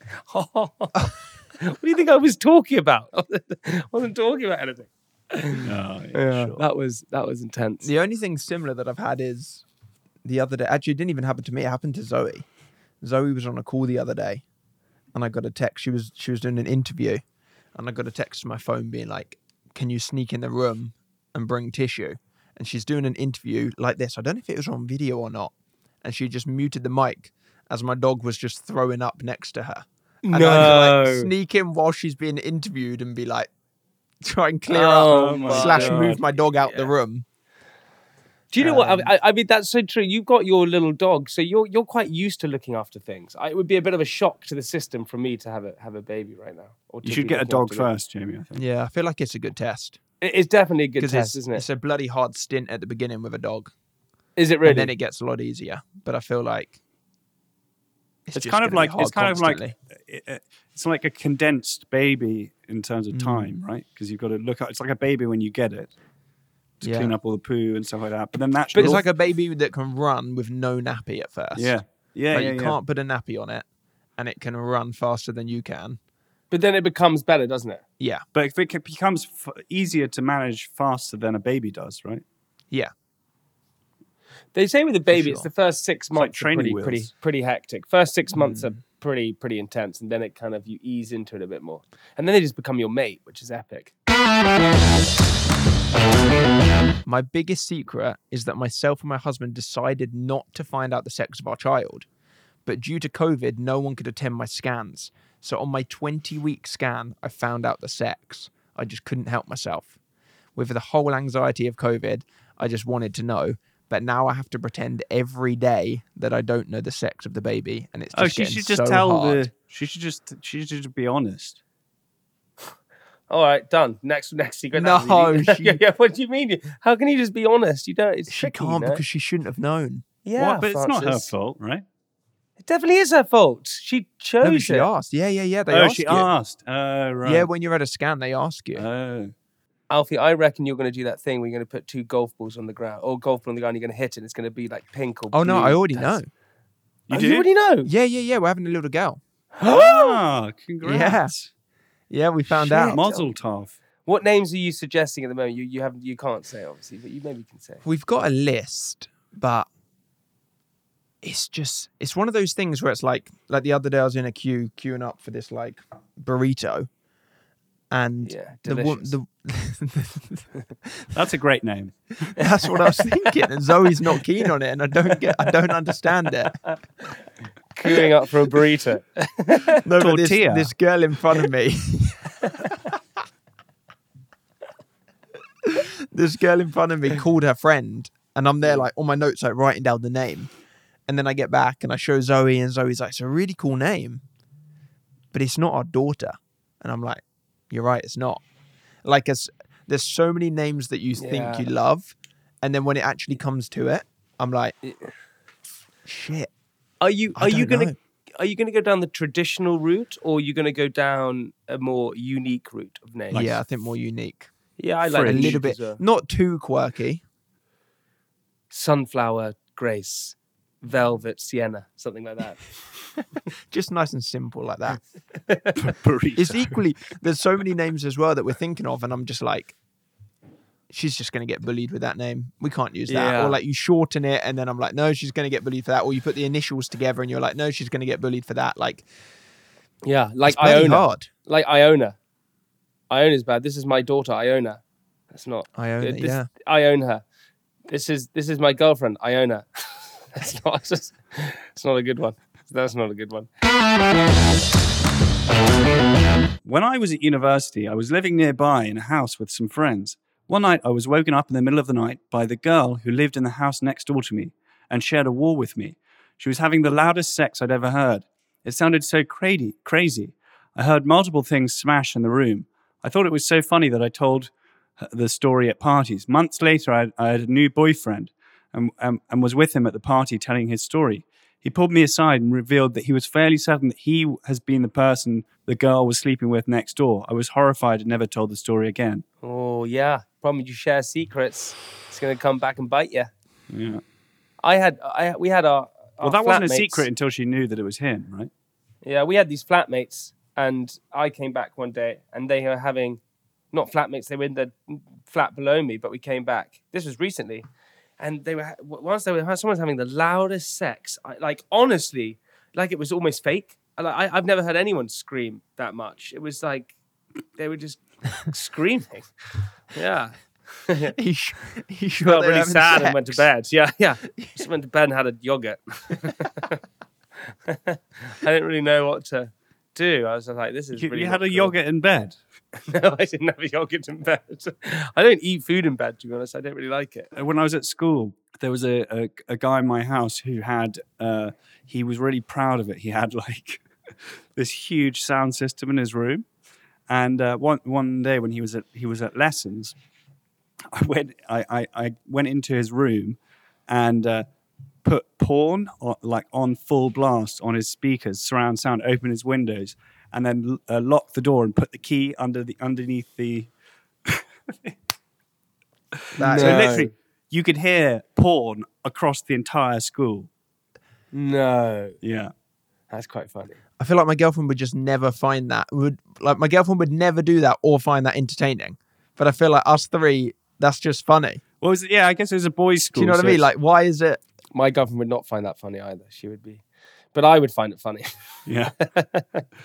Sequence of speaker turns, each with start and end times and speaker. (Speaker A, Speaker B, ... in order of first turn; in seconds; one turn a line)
Speaker A: 0.3-7.9
Speaker B: 5.6-6.6
Speaker C: 7.8-9.6
Speaker C: 10.2-12.4
Speaker C: 13.0-14.4
Speaker C: 15.1-17.2
Speaker C: 17.8-33.5
Speaker A: 30.2-31.3
Speaker C: 34.2-37.2
Speaker A: 34.7-36.9
Speaker B: 35.1-36.2
Speaker A: 38.5-47.9
Speaker C: 38.6-39.1
Speaker B: 47.0-48.6
Speaker C: 48.5-50.0
Speaker A: 50.2-51.6
Speaker C: 51.0-53.7
Speaker A: 54.4-54.9
Speaker C: 54.6-56.8
Speaker C: 58.2-59.7
Speaker B: 58.3-65.9
Speaker C: 63.1-63.5
Speaker B: 66.8-69.0
Speaker C: 66.8-67.2
Speaker C: 68.7-71.7
Speaker B: 71.5-72.8
Speaker C: 72.3-73.6
Speaker C: 74.2-76.0
Speaker A: 76.5-77.8
Speaker C: 78.0-78.2
Speaker B: 78.3-82.2
Speaker A: 84.5-93.9
Speaker C: 85.1-85.5
Speaker B: 86.1-87.1
Speaker C: 97.0-102.1
Speaker C: 102.6-109.9
Speaker C: 110.5-119.5
Speaker B: 118.1-121.6
Speaker A: 123.3-129.0
Speaker C: 124.7-125.8
Speaker C: 128.3-130.0
Speaker A: 130.2-131.3
Speaker B: 130.4-131.8
Speaker A: 132.6-134.9
Speaker C: 134.4-136.3
Speaker B: 135.7-137.5
Speaker C: 137.2-138.8
Speaker B: 138.7-139.3
Speaker A: 139.9-146.2
Speaker C: 145.3-146.3
Speaker B: 147.1-147.5
Speaker A: 147.1-147.9
Speaker C: 147.8-149.2
Speaker A: 149.6-150.2
Speaker B: 149.7-151.5
Speaker C: 150.8-151.3
Speaker C: 152.1-153.0
Speaker A: 152.7-153.3
Speaker B: 152.7-153.7
Speaker A: 154.1-157.8
Speaker C: 157.8-159.7
Speaker C: 161.2-166.9
Speaker C: 167.9-171.1
Speaker A: 168.2-169.2
Speaker B: 171.1-172.4
Speaker C: 172.4-176.6
Speaker A: 177.7-179.8
Speaker C: 179.8-182.9
Speaker B: 180.0-180.7
Speaker C: 185.6-190.5
Speaker C: 191.1-194.2
Speaker C: 195.3-198.4
Speaker C: 199.0-204.7
Speaker A: 201.2-201.7
Speaker C: 206.0-206.5
Speaker A: 207.0-213.6
Speaker C: 207.3-207.9
Speaker C: 213.3-214.5
Speaker A: 214.8-216.0
Speaker B: 215.0-215.6
Speaker C: 215.2-217.2
Speaker A: 218.7-222.6
Speaker C: 223.7-225.0
Speaker A: 225.5-225.8
Speaker B: 225.8-226.8
Speaker C: 226.3-229.7
Speaker C: 230.9-239.1
Speaker A: 233.1-233.6
Speaker A: 240.0-242.2
Speaker C: 240.4-241.3
Speaker A: 243.1-247.2
Speaker C: 245.7-246.5
Speaker A: 247.9-253.5
Speaker B: 256.6-289.2
Speaker A: 289.4-293.3
Speaker B: 293.7-294.0
Speaker A: 294.6-297.1
Speaker B: 296.2-298.5
Speaker A: 299.0-303.2
Speaker A: 303.7-307.6
Speaker A: 308.2-316.9
Speaker A: 317.6-319.3
Speaker A: 319.9-321.1
Speaker C: 321.1-323.5
Speaker A: 322.2-326.8
Speaker A: 327.5-331.7
Speaker B: 330.9-332.4
Speaker A: 332.8-337.3
Speaker B: 337.3-343.8
Speaker B: 344.6-346.4
Speaker B: 347.1-349.9
Speaker B: 350.9-354.4
Speaker B: 355.0-363.7
Speaker C: 366.4-367.1
Speaker A: 366.4-367.1
Speaker B: 366.4-370.5
Speaker A: 371.3-372.1
Speaker B: 372.2-372.5
Speaker A: 373.1-373.8
Speaker C: 374.0-381.6
Speaker B: 381.8-383.7
Speaker C: 383.1-384.4
Speaker A: 384.7-386.8
Speaker A: 387.3-388.3
Speaker B: 388.6-389.0
Speaker A: 389.0-389.6